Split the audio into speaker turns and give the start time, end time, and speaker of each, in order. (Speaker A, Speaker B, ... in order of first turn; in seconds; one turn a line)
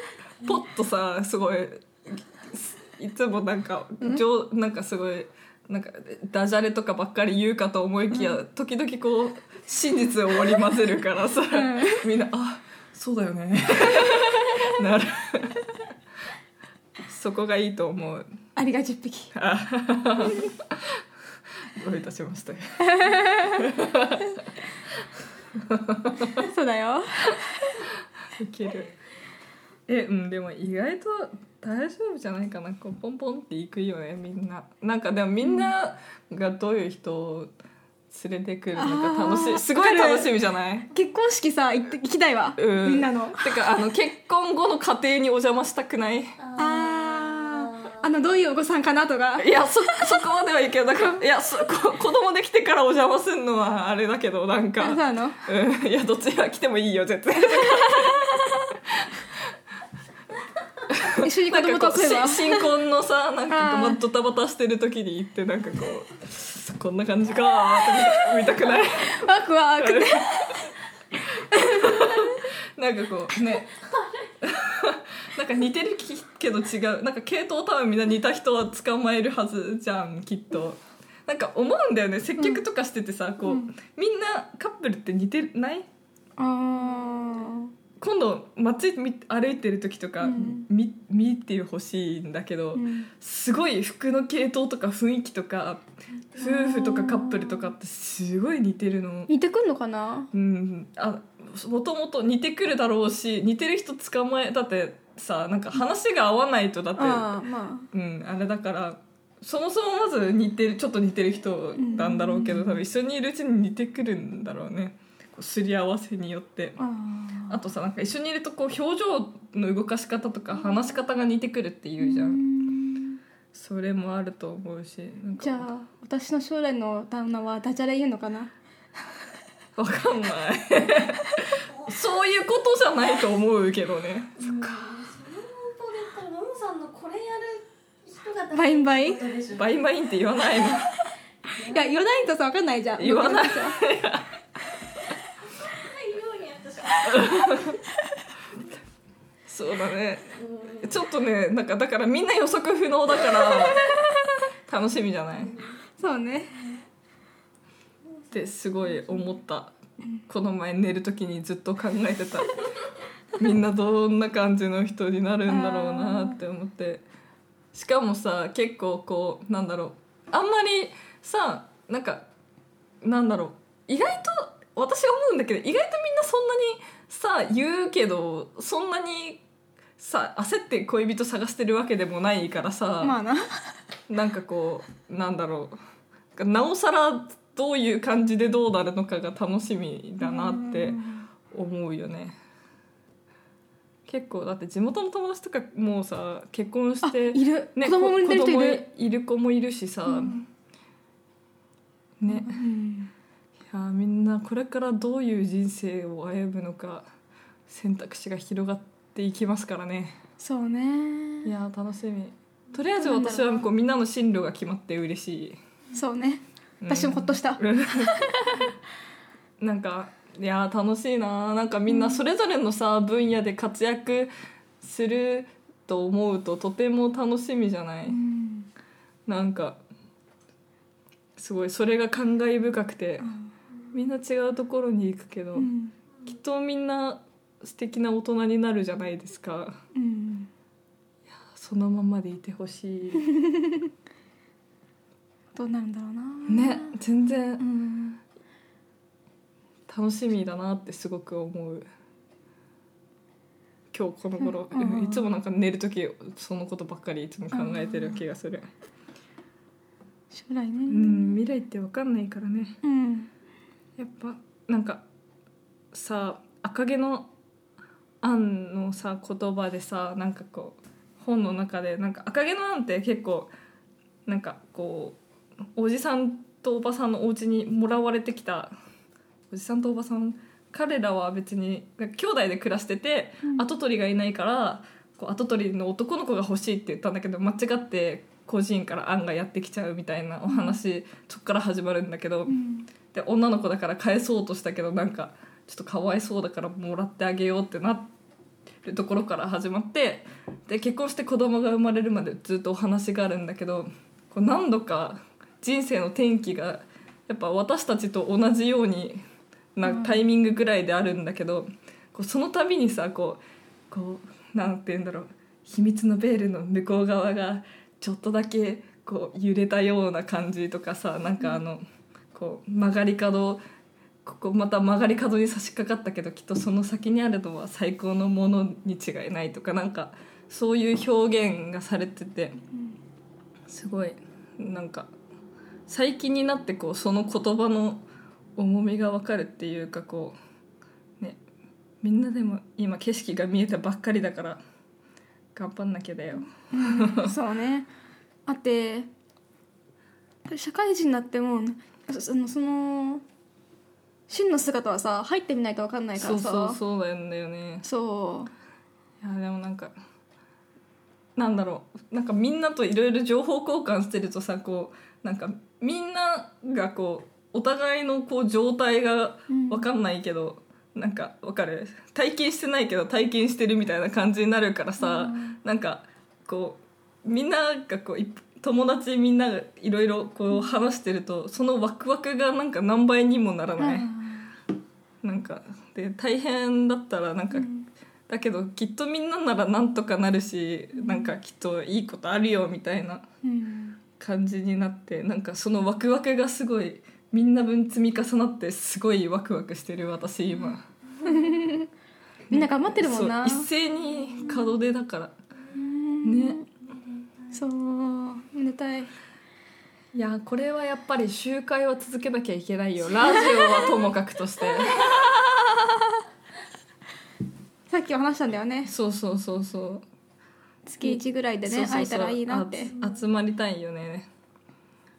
Speaker A: 0.4-15.7
Speaker B: 11.5-12.1
Speaker A: 17.1-18.2
Speaker B: 18.6-19.3
Speaker A: 19.3-20.8
Speaker A: 21.8-24.4
Speaker B: 22.8-23.6
Speaker A: 25.5-26.3
Speaker B: 26.2-27.8
Speaker A: 28.4-28.9
Speaker A: 29.9-37.5
Speaker A: 38.1-40.9
Speaker B: 38.7-40.3
Speaker B: 40.9-43.6
Speaker A: 42.6-46.4
Speaker C: 46.4-48.1
Speaker B: 46.6-50.0
Speaker A: 49.4-58.5
Speaker B: 54.8-55.4
Speaker A: 59.0-59.2
Speaker A: 60.9-69.2
Speaker B: 61.1-62.7
Speaker B: 63.5-64.0
Speaker B: 69.0-70.7
Speaker A: 69.8-70.7
Speaker A: 71.4-73.8
Speaker C: 73.8-74.3
Speaker A: 74.4-85.9
Speaker B: 82.4-82.7
Speaker B: 83.4-83.7
Speaker B: 86.4-87.7
Speaker A: 88.0-99.3
Speaker B: 90.2-90.7
Speaker B: 92.7-93.1
Speaker B: 96.4-97.7
Speaker B: 99.3-100.3
Speaker A: 100.3-116.8
Speaker B: 107.0-107.9
Speaker B: 111.8-112.8
Speaker B: 116.8-117.6
Speaker A: 117.5-122.4
Speaker B: 122.0-123.2
Speaker A: 123.5-125.7
Speaker B: 125.4-128.5
Speaker A: 129.8-134.6
Speaker C: 131.7-132.0
Speaker C: 134.4-139.7
Speaker B: 138.5-139.3
Speaker A: 139.5-140.9
Speaker C: 141.6-142.1
Speaker B: 141.6-143.8
Speaker A: 143.0-144.3
Speaker C: 145.6-147.8
Speaker A: 147.0-147.8
Speaker A: 149.5-154.0
Speaker C: 150.4-151.0
Speaker B: 153.7-154.0
Speaker A: 154.7-155.6
Speaker C: 155.5-155.8
Speaker B: 156.0-156.6
Speaker A: 158.3-159.7
Speaker A: 160.3-162.7
Speaker A: 163.4-167.0
Speaker B: 165.5-166.4
Speaker A: 167.7-172.3
Speaker A: 173.0-179.4
Speaker A: 180.0-183.2
Speaker B: 183.0-183.8
Speaker A: 184.1-185.8
Speaker A: 186.4-192.3
Speaker B: 190.2-191.3
Speaker A: 194.1-200.5
Speaker B: 197.0-198.9
Speaker B: 200.1-200.4
Speaker A: 202.2-202.6
Speaker B: 202.3-203.1
Speaker A: 203.7-207.1
Speaker A: 207.7-210.2
Speaker B: 210.4-211.5
Speaker A: 211.4-215.6
Speaker B: 212.9-213.7
Speaker B: 215.9-218.7
Speaker A: 216.8-218.6
Speaker A: 219.6-228.2
Speaker B: 221.9-222.2
Speaker B: 228.1-228.7
Speaker A: 229.3-229.8
Speaker A: 231.4-233.3
Speaker B: 233.2-233.5
Speaker A: 233.9-235.7
Speaker B: 235.6-235.9
Speaker A: 236.2-239.8
Speaker B: 239.9-240.5
Speaker A: 241.4-243.3
Speaker B: 243.2-243.8
Speaker B: 245.6-246.9
Speaker A: 246.5-247.7
Speaker B: 247.6-248.2
Speaker A: 249.9-251.9
Speaker A: 253.9-258.7
Speaker B: 254.4-255.3
Speaker B: 257.5-258.2
Speaker B: 260.3-261.4
Speaker A: 260.9-262.8
Speaker B: 262.8-263.3
Speaker A: 264.0-265.0
Speaker A: 265.9-267.3
Speaker A: 268.2-273.5
Speaker A: 274.3-275.2
Speaker A: 275.8-278.7
Speaker A: 279.5-292.6
Speaker B: 290.5-290.8
Speaker B: 292.5-292.9
Speaker A: 293.1-298.1
Speaker A: 298.8-309.2
Speaker A: 309.8-321.8
Speaker B: 309.8-310.2
Speaker A: 322.3-323.6
Speaker A: 324.2-332.6
Speaker A: 333.7-335.1
Speaker A: 335.9-338.1
Speaker A: 338.6-340.4
Speaker A: 342.0-344.6
Speaker A: 345.6-347.4
Speaker B: 346.7-347.9
Speaker B: 348.5-349.1
Speaker B: 350.5-353.2
Speaker B: 354.3-356.8
Speaker A: 356.2-357.9
Speaker B: 357.8-358.5
Speaker A: 359.2-359.9
Speaker A: 361.4-384.1
Speaker B: 369.5-369.9
Speaker B: 375.0-375.6
Speaker B: 383.8-384.5
Speaker A: 385.2-387.7
Speaker B: 387.5-387.9
Speaker A: 388.3-393.3
Speaker B: 391.0-391.3
Speaker B: 393.4-394.0
Speaker A: 394.2-400.9
Speaker B: 401.2-401.9
Speaker B: 402.5-403.7
Speaker A: 402.5-405.4
Speaker B: 405.7-406.7
Speaker A: 406.2-406.6
Speaker C: 406.9-407.5
Speaker B: 407.5-409.1
Speaker A: 410.1-415.8
Speaker B: 413.2-413.8
Speaker B: 417.9-418.9
Speaker A: 418.9-420.0
Speaker B: 420.9-422.9
Speaker A: 421.0-424.3